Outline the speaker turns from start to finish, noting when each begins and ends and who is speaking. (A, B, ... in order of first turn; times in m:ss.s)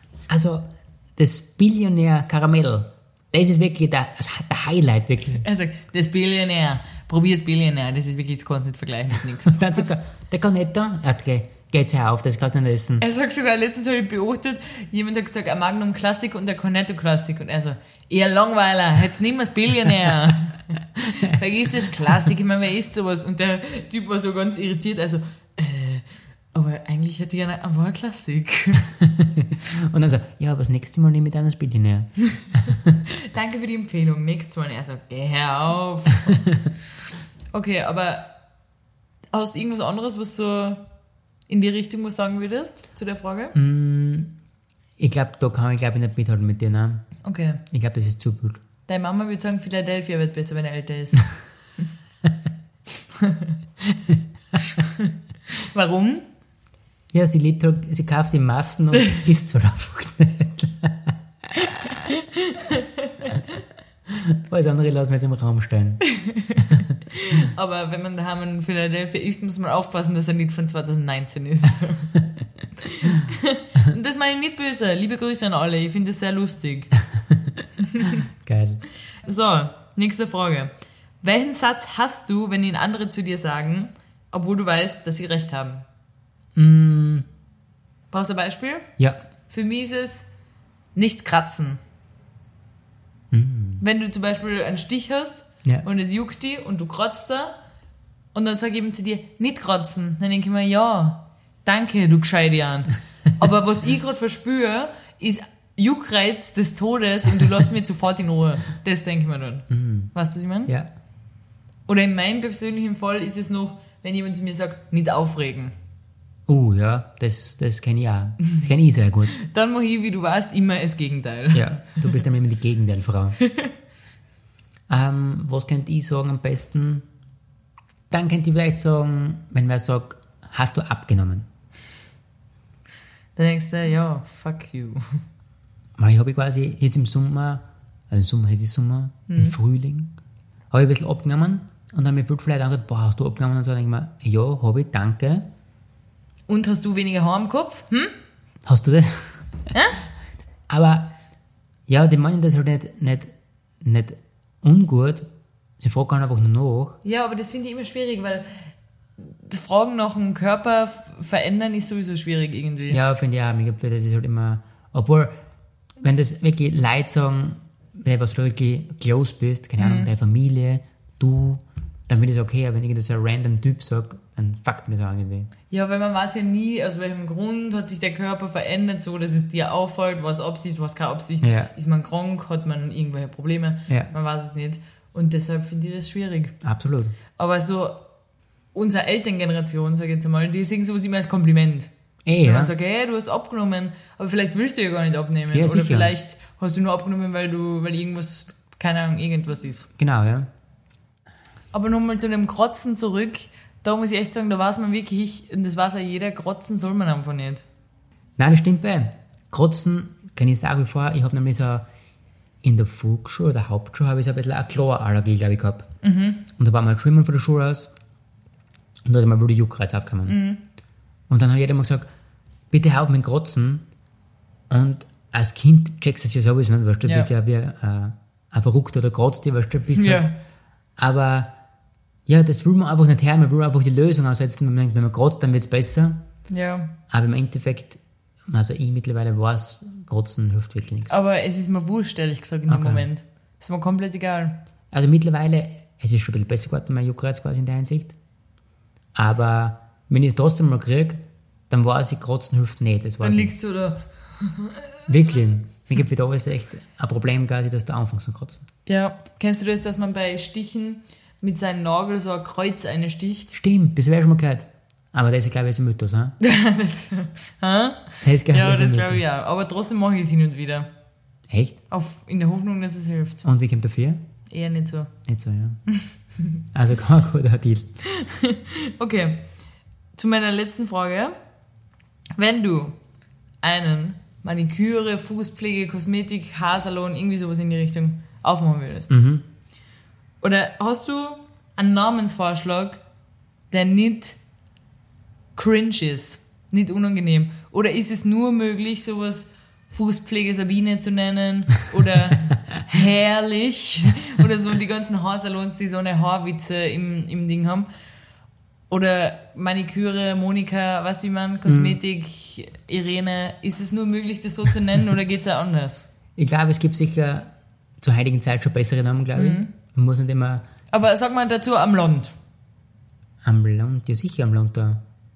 0:00.3-0:05.4 A
0:05.4-0:09.8 B
0:09.5-0:13.0 A
0:13.0-0:28.9 B
0:29.0-0:33.0 A
0:33.1-0:36.4 B
0:37.5-0:38.3 B
0:39.3-0:40.8 B
0:41.5-0:43.6 B
0:43.5-0:44.3 A
0:45.0-0:47.0 A
0:47.2-0:47.6 B
0:47.7-0:48.6 A
0:48.9-0:51.3 B
0:53.2-0:53.5 B
0:55.6-0:56.2 B
0:57.1-1:01.7 A
1:02.1-1:03.3 B
1:04.1-1:06.0 A
1:06.6-1:06.8 A
1:07.1-1:12.2 B
1:12.8-1:16.9 B
1:17.2-1:17.4 A
1:18.4-1:18.8 A
1:19.2-1:25.8 B
1:26.6-1:27.3 A
1:28.1-1:28.9 B
1:29.5-1:30.3 B
1:30.9-1:31.8 B
1:33.3-1:33.8 A
1:33.8-1:37.5 B
1:38.3-1:50.7 B
1:49.7-1:50.1 A
1:51.9-1:55.7 B
1:56.5-1:59.4 A
1:59.4-2:02.0 B
2:01.5-2:03.4 A
2:04.9-2:07.0 A
2:08.1-2:11.5 A
2:13.4-2:15.2 B
2:16.0-2:20.1 A
2:19.3-2:19.6 B
2:20.7-2:25.5 A
2:26.5-2:28.1 B
2:28.6-2:29.5 A
2:29.7-2:30.0 B
2:30.7-2:31.1 A
2:31.9-2:35.3 A
2:35.8-2:37.0 A
2:37.0-2:38.5 B
2:39.2-2:43.0 B
2:42.9-2:45.4 A
2:46.0-2:55.5 A
2:49.8-2:50.1 B
2:55.7-3:06.6 B
3:01.4-3:01.7 A
3:06.6-3:07.2 A
3:07.4-3:08.0 B
3:08.7-3:11.9 B
3:12.2-3:12.7 A
3:12.4-3:19.9 B
3:15.5-3:16.1 A
3:20.0-3:20.5 A
3:21.7-3:27.6 B
3:28.4-3:31.9 A
3:32.6-3:35.9 A
3:36.0-3:36.4 B
3:36.6-3:37.9 A
3:39.0-3:40.4 A
3:40.3-3:40.6 B
3:41.3-3:42.1 A
3:42.7-3:43.8 A
3:44.7-3:50.3 A
3:47.0-3:47.3 B
3:50.0-3:50.4 B
3:51.0-3:51.5 A
3:52.2-3:56.2 A
3:56.5-3:56.9 B
3:57.1-4:01.2 A
4:01.1-4:04.6 B
4:02.7-4:03.1 A
4:04.9-4:08.2 A
4:09.1-4:13.5 A
4:13.2-4:15.0 B
4:15.1-4:18.6 A
4:18.9-4:23.5 B
4:23.5-4:26.4 A
4:26.4-4:30.9 B
4:28.2-4:29.2 A
4:31.5-4:31.8 A
4:31.9-4:33.4 B
4:33.4-4:34.2 A
4:34.5-4:35.1 B
4:35.2-4:35.8 A
4:36.7-4:37.9 A
4:38.2-4:39.5 B
4:40.1-4:41.3 B
4:42.4-4:43.0 B
4:43.6-4:49.2 B
4:49.1-4:49.4 A
4:50.4-4:53.0 B
4:53.7-4:54.4 B
4:55.6-5:07.9 B
5:08.9-5:16.1 B
5:11.6-5:12.0 A
5:16.4-5:20.7 A
5:19.3-5:19.7 B
5:20.9-5:22.3 B
5:23.4-5:25.0 A